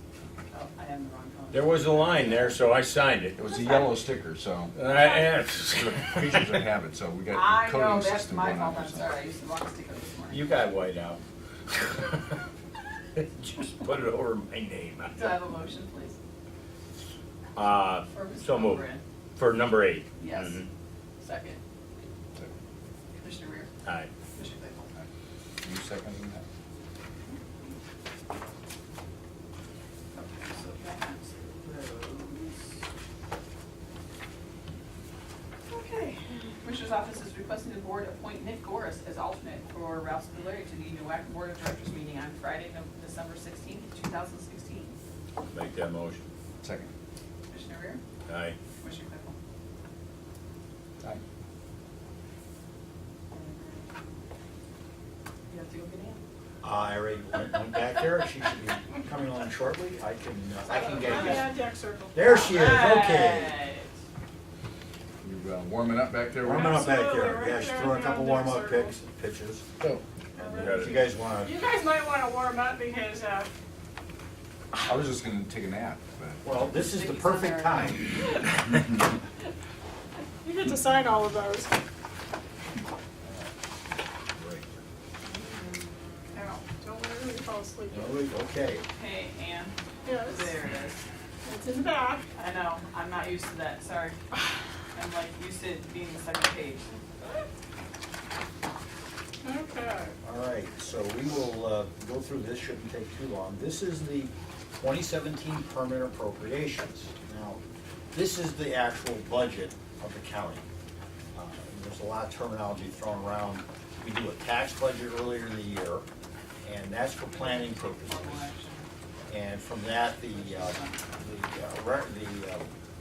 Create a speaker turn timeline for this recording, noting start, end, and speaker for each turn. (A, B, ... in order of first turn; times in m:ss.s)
0:00.5-0:02.6 A
0:01.5-0:03.4 B
0:03.4-0:04.8 C
0:04.7-0:06.6 B
0:05.8-0:09.1 C
0:07.3-0:10.5 A
0:10.3-0:12.2 B
0:13.2-0:15.4 B
0:15.1-0:16.2 A
0:17.6-0:18.8 B
0:18.1-0:19.0 A
0:19.4-0:20.7 B
0:20.2-0:20.6 A
0:21.2-0:21.6 A
0:23.2-0:23.7 A
0:23.8-0:24.1 B
0:24.3-0:24.9 A
0:25.6-0:26.4 C
0:30.1-0:32.6 A
0:35.7-0:36.2 D
0:36.6-0:45.0 A
0:45.5-0:46.2 B
0:46.6-0:46.9 C
0:47.5-0:48.0 A
0:48.3-0:48.6 B
0:48.8-0:49.4 A
0:53.3-0:53.9 A
0:55.5-0:56.2 A
0:56.6-1:01.5 E
1:00.7-1:02.6 D
1:00.9-1:01.4 A
1:02.1-1:03.6 E
1:02.5-1:03.9 A
1:05.2-1:06.8 C
1:06.4-1:09.6 E
1:06.5-1:09.0 D
1:10.4-1:13.6 D
1:10.4-1:11.6 E
1:10.5-1:11.0 B
1:14.7-1:16.4 C
1:16.4-1:18.0 E
1:16.9-1:18.0 A
1:20.4-1:21.8 D
1:25.3-1:26.5 A
1:26.3-1:28.2 D
1:27.9-1:28.8 E
1:29.0-1:31.0 A
1:30.1-1:30.6 D
1:31.4-1:32.2 D
1:32.4-1:34.2 A
1:34.9-1:36.9 A
1:39.4-1:40.1 D
1:40.2-1:47.6 E
1:48.1-1:50.6 E
1:51.3-1:56.0 E
1:56.6-1:58.5 E
1:57.3-1:58.9 A
1:59.3-2:02.7 E
2:00.3-2:01.2 A